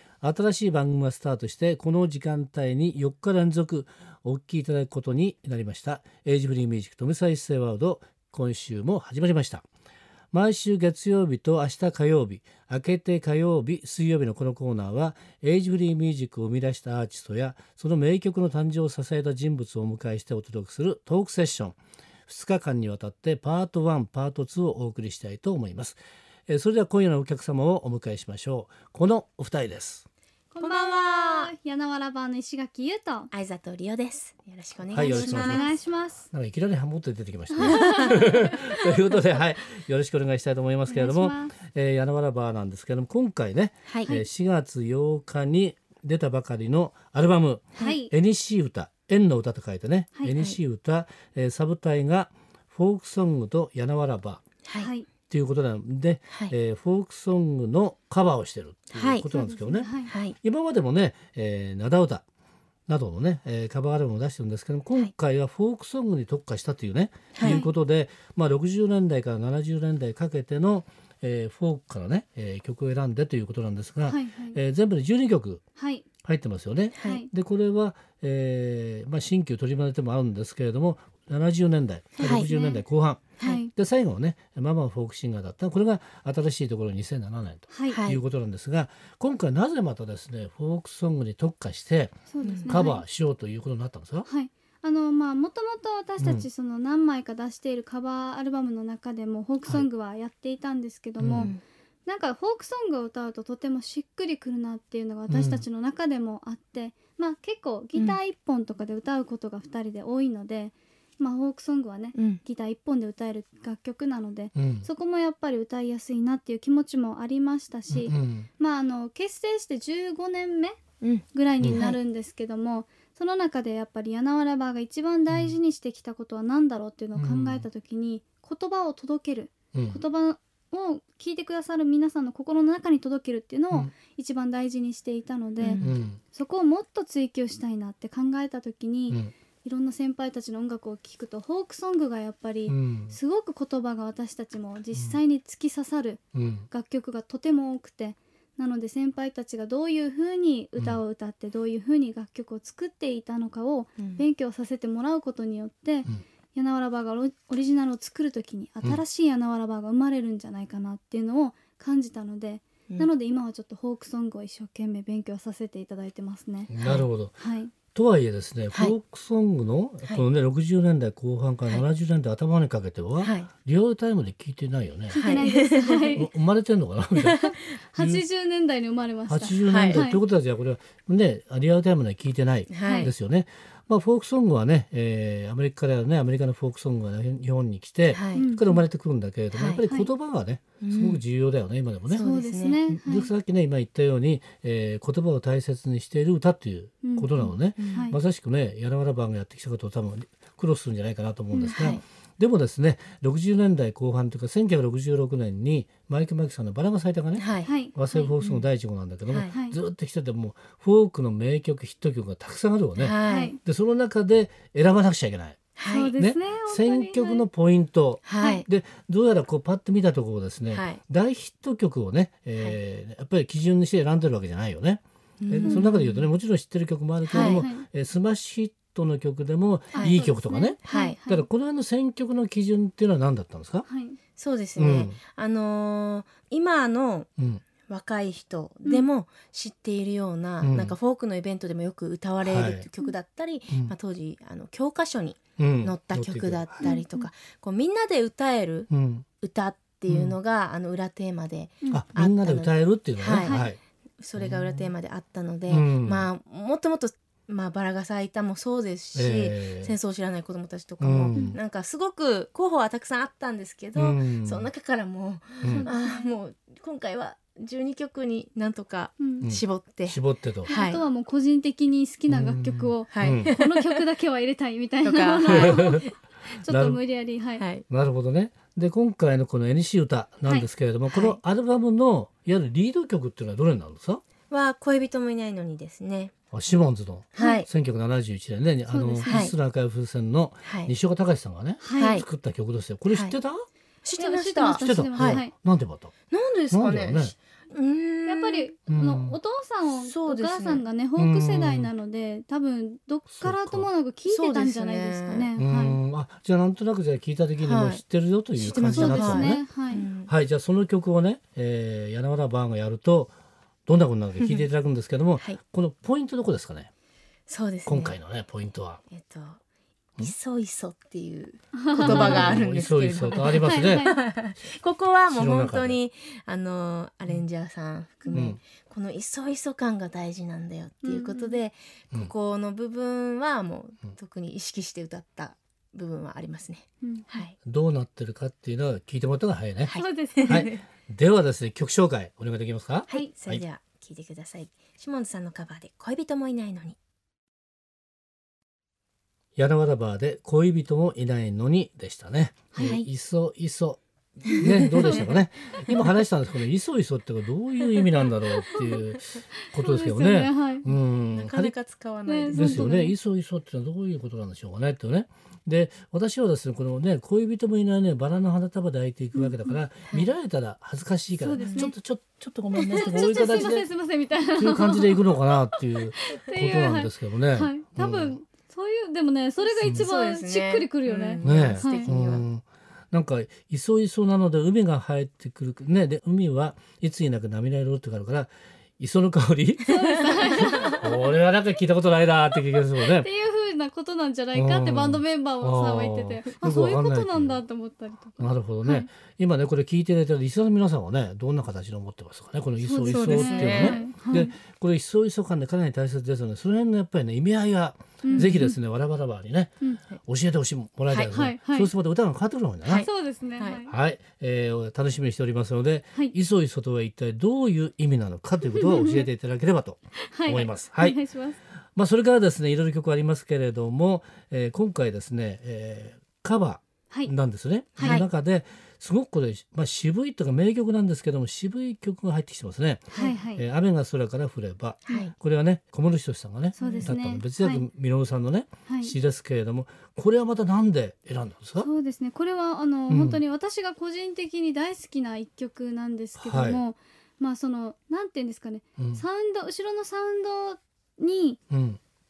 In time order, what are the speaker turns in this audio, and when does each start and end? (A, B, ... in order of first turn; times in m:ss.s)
0:00.2-0:09.6 A
0:10.3-0:30.0 A
0:30.5-0:33.3 B
0:30.6-0:31.5 C
0:33.3-0:35.7 C
0:34.9-0:35.7 A
0:34.9-0:36.3 B
0:36.3-0:54.4 A
0:37.6-0:39.0 B
0:40.9-0:41.5 B
0:43.8-0:44.1 C
0:47.8-0:48.1 B
0:50.3-0:50.6 C
0:54.6-0:54.9 C
0:54.8-0:55.1 B
0:55.3-1:02.2 A
0:58.9-0:59.3 C
0:59.3-1:00.1 B
1:00.0-1:00.4 C
1:02.9-1:15.6 A
1:07.3-1:07.6 C
1:07.4-1:07.7 B
1:14.1-1:14.6 B
1:15.8-1:16.0 B
1:16.2-1:34.3 A
1:16.9-1:17.2 C
1:17.0-1:17.3 B
1:22.2-1:22.5 C
1:22.2-1:22.8 B
1:23.4-1:23.7 B
1:27.7-1:28.0 B
1:27.9-1:28.2 C
1:32.3-1:33.0 B
1:32.4-1:32.8 C
1:34.2-2:00.8 B
1:36.2-1:36.5 A
1:41.2-1:41.5 A
1:45.3-1:45.6 A
1:52.1-1:52.4 C
1:54.5-1:54.9 A
1:57.9-1:58.5 A
2:01.3-2:46.7 B
2:07.1-2:07.6 A
2:09.7-2:10.0 A
2:15.8-2:16.2 A
2:22.7-2:23.2 A
2:26.3-2:26.7 A
2:34.0-2:34.2 C
2:46.7-2:47.3 A
2:46.8-2:47.0 C
2:47.4-2:47.7 B
2:47.9-2:57.4 A
2:53.2-2:53.5 C
2:55.1-2:56.3 B
2:55.2-2:56.0 C
2:57.4-3:00.2 B
2:57.9-2:58.2 A
2:59.3-3:12.2 A
2:59.7-3:00.1 C
3:02.7-3:03.1 C
3:02.8-3:03.1 B
3:08.1-3:08.4 C
3:08.3-3:08.8 B
3:09.5-3:09.8 C
3:09.8-3:10.1 B
3:10.8-3:11.2 C
3:12.1-3:12.8 C
3:12.1-3:13.3 B
3:12.9-3:53.8 A
3:17.0-3:18.2 B
3:17.4-3:18.1 C
3:21.6-3:22.0 C
3:27.3-3:27.7 C
3:27.6-3:28.3 B
3:28.4-3:28.7 C
3:29.3-3:29.5 C
3:29.5-3:29.8 B
3:33.0-3:33.5 C
3:33.2-3:33.6 B
3:35.8-3:36.1 C
3:35.8-3:37.4 B
3:38.2-3:38.6 C
3:38.4-3:38.7 B
3:40.7-3:41.0 C
3:45.4-3:46.2 C
3:45.6-3:45.9 B
3:47.3-3:47.9 B
3:47.3-3:47.6 C
3:49.9-3:51.4 B
3:50.0-3:50.2 C
3:50.8-3:51.2 C
3:53.8-3:54.2 B
3:54.4-3:57.3 C
3:54.8-3:55.2 A
3:57.4-3:57.6 A
3:57.9-4:08.9 C
4:00.6-4:00.9 A
4:02.4-4:02.8 A
4:05.6-4:06.9 A
4:06.8-4:07.3 B
4:08.9-4:09.2 A
4:09.4-4:31.0 C
4:10.1-4:10.4 A
4:11.9-4:13.8 A
4:13.4-4:13.7 B
4:14.4-4:14.8 A
4:15.7-4:16.3 A
4:19.1-4:19.9 A
4:21.0-4:21.6 A
4:21.3-4:21.6 B
4:24.0-4:24.7 A
4:25.6-4:25.9 A
4:25.6-4:26.3 B
4:29.2-4:29.5 B
4:29.4-4:30.7 A
4:30.6-4:37.6 B
4:32.3-4:33.5 A
4:33.1-4:34.0 C
4:35.0-4:36.1 C
4:35.6-4:36.0 A
4:36.7-4:37.0 A
4:37.6-4:37.8 C
4:37.9-4:44.2 A
4:41.1-4:41.4 C
4:44.5-4:46.3 C
4:46.5-4:53.7 A
4:47.3-4:47.7 C
4:47.4-4:47.6 B
4:48.9-4:49.5 B
4:49.3-4:49.5 C
4:50.6-4:50.9 C
4:51.8-4:52.2 B
4:52.0-4:52.2 C
4:53.1-4:53.4 C
4:54.0-4:55.4 C
4:54.1-4:55.5 B
4:54.8-4:56.1 A
4:56.3-4:58.7 C
4:56.7-4:57.3 A
4:58.3-5:06.0 B
4:58.9-4:59.4 A
4:59.9-5:00.8 C
5:01.2-5:01.9 A
5:03.3-5:03.9 A
5:04.2-5:05.5 C
5:05.6-5:09.6 A
5:07.6-5:08.0 C
5:08.6-5:10.0 B
5:08.6-5:10.3 C
5:10.3-5:13.3 A
5:13.8-5:16.9 A
5:17.5-5:18.2 C
5:17.8-5:19.0 A
5:19.1-5:19.6 C
5:20.2-5:37.6 C
5:21.7-5:22.6 B
5:22.0-5:24.1 A
5:23.3-5:24.2 B
5:25.3-5:26.0 A
5:28.3-5:28.6 A
5:31.0-5:31.6 B
5:37.0-5:37.4 B
5:37.6-5:39.9 A
5:39.8-5:40.8 C
5:39.9-5:40.7 B
5:40.4-5:43.6 A
5:43.1-5:43.3 B
5:43.1-5:47.0 C
5:49.6-6:01.7 A
5:52.8-5:53.1 C
5:54.5-5:55.2 C
5:59.7-6:00.8 B
6:01.3-6:02.9 C
6:02.2-6:03.1 B
6:02.5-6:13.9 A
6:09.3-6:09.8 B
6:11.4-6:11.9 B
6:11.6-6:11.9 C
6:12.8-6:13.5 C
6:12.9-6:22.1 B
6:14.6-6:18.4 A
6:19.6-6:22.4 C
6:21.4-6:29.9 A
6:29.9-6:31.2 B
6:30.6-6:33.3 A
6:33.0-6:39.1 B
6:34.5-6:37.6 A
6:38.4-6:53.1 A
6:42.8-6:44.5 B
6:43.1-6:44.0 C
6:48.2-6:48.7 B
6:48.3-6:48.6 C
6:51.1-6:51.9 B
6:52.8-6:53.8 C
6:52.9-6:53.9 B
6:53.9-7:01.2 A
6:58.7-6:59.2 B
7:00.3-7:01.6 B
7:02.0-7:21.9 A
7:08.0-7:08.2 B
7:08.0-7:08.3 C
7:13.1-7:13.6 B
7:15.0-7:15.3 C
7:16.8-7:17.8 B
7:16.8-7:17.1 C
7:18.9-7:19.1 B
7:21.8-7:31.6 B
7:23.1-7:23.4 A
7:26.4-7:26.8 A
7:29.0-7:29.2 A
7:31.7-7:32.0 A